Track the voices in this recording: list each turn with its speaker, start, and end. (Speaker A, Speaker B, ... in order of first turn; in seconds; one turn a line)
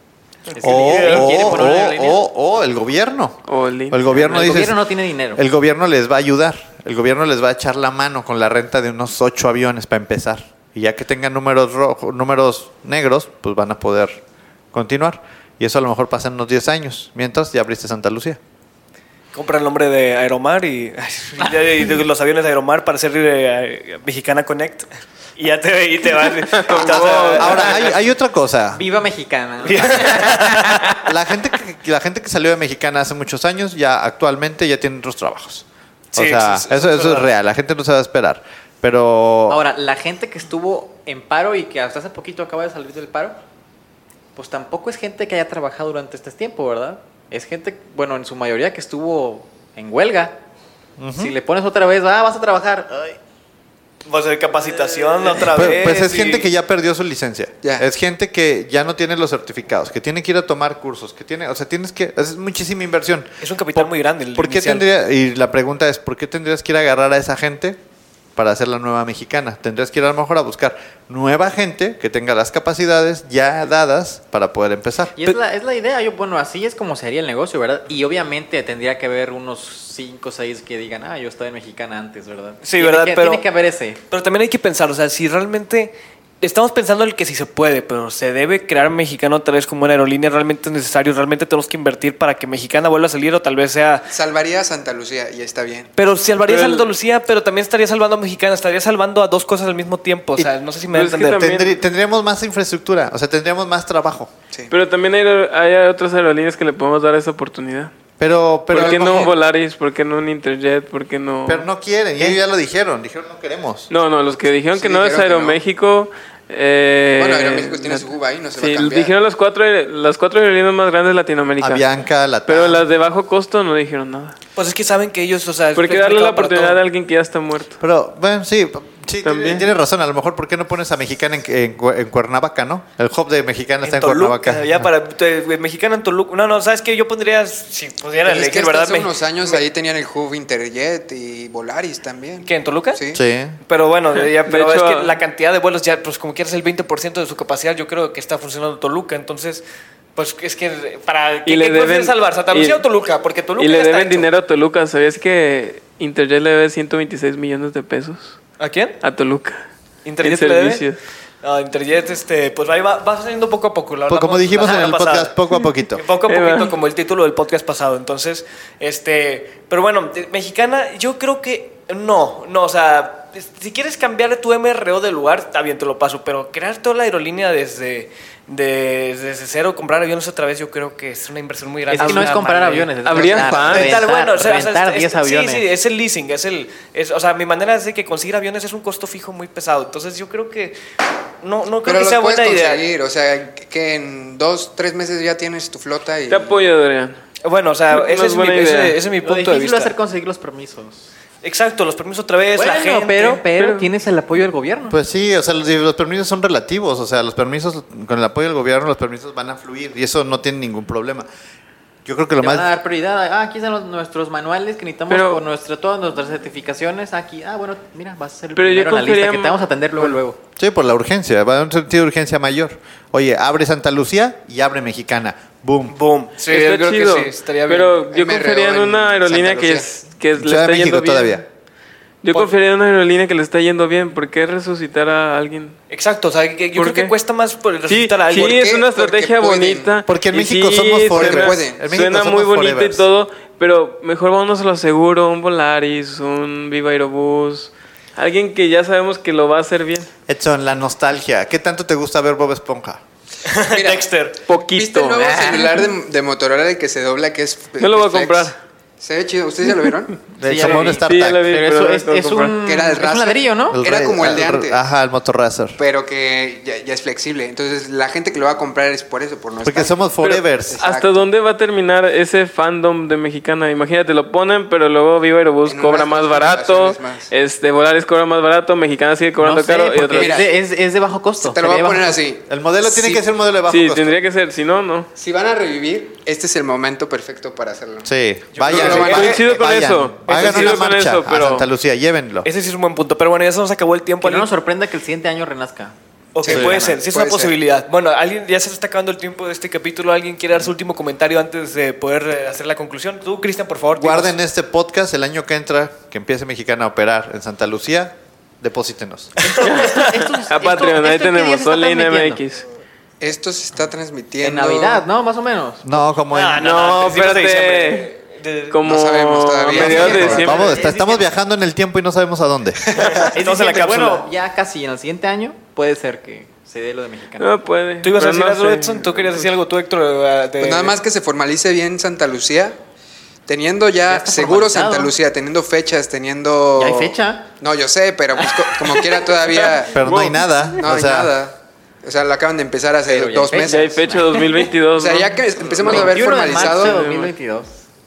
Speaker A: 0.5-2.2
Speaker B: 0.6-3.4
Speaker C: 0.6-1.8
Speaker D: 3.5-4.2
Speaker B: 3.9-4.8
Speaker A: 4.1-5.4
Speaker B: 5.3-14.2
Speaker B: 14.7-18.4
Speaker C: 19.3-28.0
Speaker D: 26.4-27.8
Speaker B: 27.3-28.8
Speaker A: 28.7-30.4
Speaker C: 29.6-30.9
Speaker B: 31.1-39.6
Speaker C: 36.1-37.3
Speaker A: 39.5-43.4
Speaker A: 44.4-50.4
Speaker B: 51.0-51.3
Speaker A: 51.1-53.2
Speaker C: 54.0-56.5
Speaker B: 55.4-67.8
Speaker C: 63.4-64.8
Speaker B: 68.3-75.1
Speaker A: 75.1-84.0
Speaker C: 82.6-83.4
Speaker C: 84.1-94.1
Speaker E: 94.1-95.9
Speaker C: 96.0-101.7
Speaker D: 96.5-96.9
Speaker D: 100.9-101.4
Speaker B: 101.3-104.3
Speaker D: 104.7-107.9
Speaker B: 108.2-109.3
Speaker D: 108.7-111.7
Speaker E: 108.8-109.3
Speaker B: 111.5-113.9
Speaker D: 113.9-121.8
Speaker E: 114.7-115.6
Speaker E: 117.2-119.1
Speaker B: 121.6-122.8
Speaker D: 122.5-124.3
Speaker C: 124.5-126.8
Speaker D: 125.7-127.8
Speaker B: 127.8-134.8
Speaker D: 129.2-129.7
Speaker C: 133.8-139.6
Speaker E: 138.2-143.2
Speaker C: 142.4-143.0
Speaker B: 143.1-143.6
Speaker C: 143.7-149.6
Speaker D: 144.4-145.2
Speaker C: 150.2-154.3
Speaker D: 151.4-152.8
Speaker D: 153.6-158.4
Speaker C: 158.6-158.9
Speaker D: 159.0-159.6
Speaker C: 160.0-160.8
Speaker D: 160.2-161.0
Speaker C: 161.4-165.3
Speaker B: 164.1-166.0
Speaker C: 165.9-190.8
Speaker D: 166.3-166.7
Speaker A: 181.9-185.7
Speaker D: 182.0-182.3
Speaker D: 183.0-184.0
Speaker C: 191.4-192.9
Speaker E: 191.8-196.6
Speaker D: 196.3-197.2
Speaker C: 197.4-199.9
Speaker D: 197.9-199.0
Speaker A: 199.2-201.1
Speaker C: 201.4-203.4
Speaker A: 202.6-205.0
Speaker D: 203.5-203.9
Speaker B: 204.9-211.3
Speaker B: 212.0-212.7
Speaker A: 212.4-220.4
Speaker D: 215.1-215.4
Speaker D: 218.5-219.6
Speaker B: 220.6-225.9
Speaker C: 225.9-228.0
Speaker D: 226.5-231.4
Speaker E: 228.1-229.9
Speaker B: 230.3-231.4
Speaker D: 232.2-235.8
Speaker C: 235.9-238.6
Speaker D: 236.7-237.1
Speaker D: 237.9-250.1
Speaker E: 238.4-239.9
Speaker B: 240.1-243.1
Speaker E: 241.1-241.8
Speaker B: 250.3-253.0
Speaker C: 253.4-254.4
Speaker E: 253.7-260.2
Speaker D: 254.4-255.7
Speaker A: 255.2-255.7
Speaker D: 257.8-258.6
Speaker B: 260.4-261.5
Speaker A: 260.4-263.8
Speaker D: 260.6-262.6
Speaker E: 262.6-264.8
Speaker B: 263.7-265.8
Speaker E: 265.8-271.3
Speaker B: 269.6-270.8
Speaker D: 270.2-280.4
Speaker E: 275.6-277.3
Speaker A: 279.4-282.2
Speaker E: 280.1-280.5
Speaker E: 281.4-283.2
Speaker B: 282.5-284.2
Speaker D: 283.7-285.1
Speaker E: 285.1-288.1
Speaker B: 288.0-292.5
Speaker C: 288.5-289.4
Speaker E: 288.6-289.4
Speaker D: 288.8-291.6
Speaker C: 290.3-290.9
Speaker C: 292.4-294.5
Speaker A: 294.2-295.9
Speaker C: 296.3-304.4
Speaker E: 296.4-297.5
Speaker A: 296.5-297.0
Speaker B: 296.5-296.8
Speaker B: 303.9-309.3
Speaker C: 309.4-310.0
Speaker D: 309.6-312.6
Speaker A: 310.0-312.4
Speaker E: 313.2-315.0
Speaker A: 314.4-316.1
Speaker B: 315.8-316.9
Speaker C: 316.3-318.8
Speaker D: 316.6-318.1
Speaker D: 318.7-320.9
Speaker E: 318.8-320.6
Speaker B: 319.7-322.8
Speaker A: 319.8-320.5
Speaker C: 320.3-321.2
Speaker C: 322.9-324.3
Speaker A: 323.3-327.5
Speaker D: 327.4-329.4
Speaker C: 328.0-330.9
Speaker E: 330.6-332.8
Speaker E: 333.5-340.1
Speaker A: 334.0-335.1
Speaker A: 336.8-337.5
Speaker B: 339.9-341.3
Speaker D: 340.0-340.4
Speaker E: 340.8-343.9
Speaker A: 343.1-344.6
Speaker D: 343.6-347.3
Speaker E: 344.9-347.0
Speaker A: 345.7-347.8